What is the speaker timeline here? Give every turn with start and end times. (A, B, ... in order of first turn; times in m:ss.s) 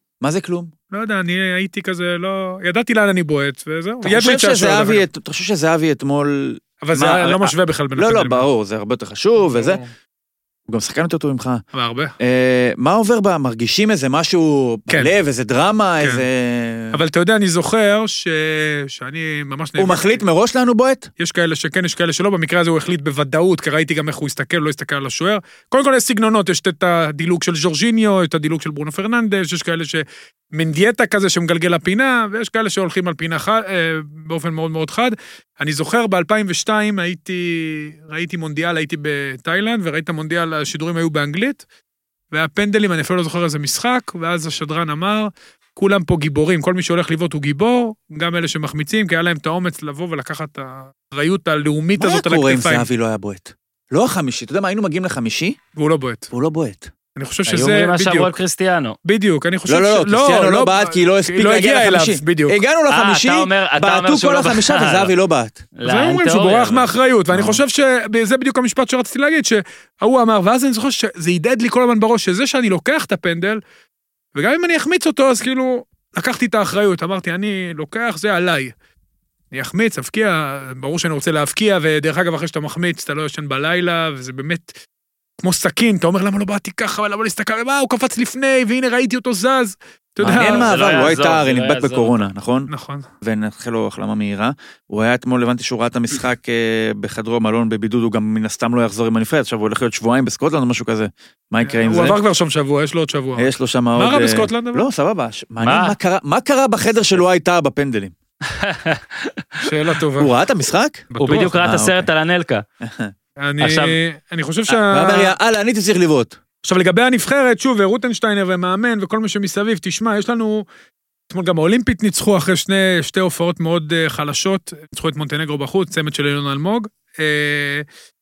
0:00.2-0:00.7 A
0:00.9-0:05.0 B
0:04.0-0:09.8 A
0:06.8-0:08.4 B
0:09.4-0:09.9 B
0:10.7-0:11.6 A
0:11.7-0:12.1 B
0:12.2-0:17.0 A
0:16.0-0:16.2 B
0:16.9-0:20.2 B
0:19.8-0:21.1 A
0:21.2-0:41.6 B
0:42.3-0:52.9 B
0:52.0-0:55.6 A
0:55.8-0:56.3 B
0:56.3-0:56.9 A
0:57.2-0:58.3 B
0:57.5-0:59.0 C
0:59.0-1:02.6 B
0:59.7-1:05.6 A
1:02.9-1:05.1 C
1:05.8-1:06.9 C
1:05.8-1:13.6 B
1:07.3-1:07.6 A
1:14.3-1:18.7 B
1:19.5-1:24.8 B
1:25.4-1:30.8 B
1:30.2-1:32.7 A
1:30.3-1:32.2 C
1:32.7-1:33.1 B
1:33.2-1:42.2 A
1:41.6-1:44.9 B
1:43.4-1:48.1 A
1:45.6-1:45.9 C
1:48.5-1:49.6 C
1:49.6-1:50.3 B
1:50.2-1:52.1 A
1:51.1-1:51.6 B
1:51.2-1:52.6 C
1:52.8-1:53.1 A
1:53.4-1:55.3 B
1:53.6-1:53.9 C
1:54.7-1:56.4 A
1:56.6-2:00.6 B
2:01.3-2:07.8 B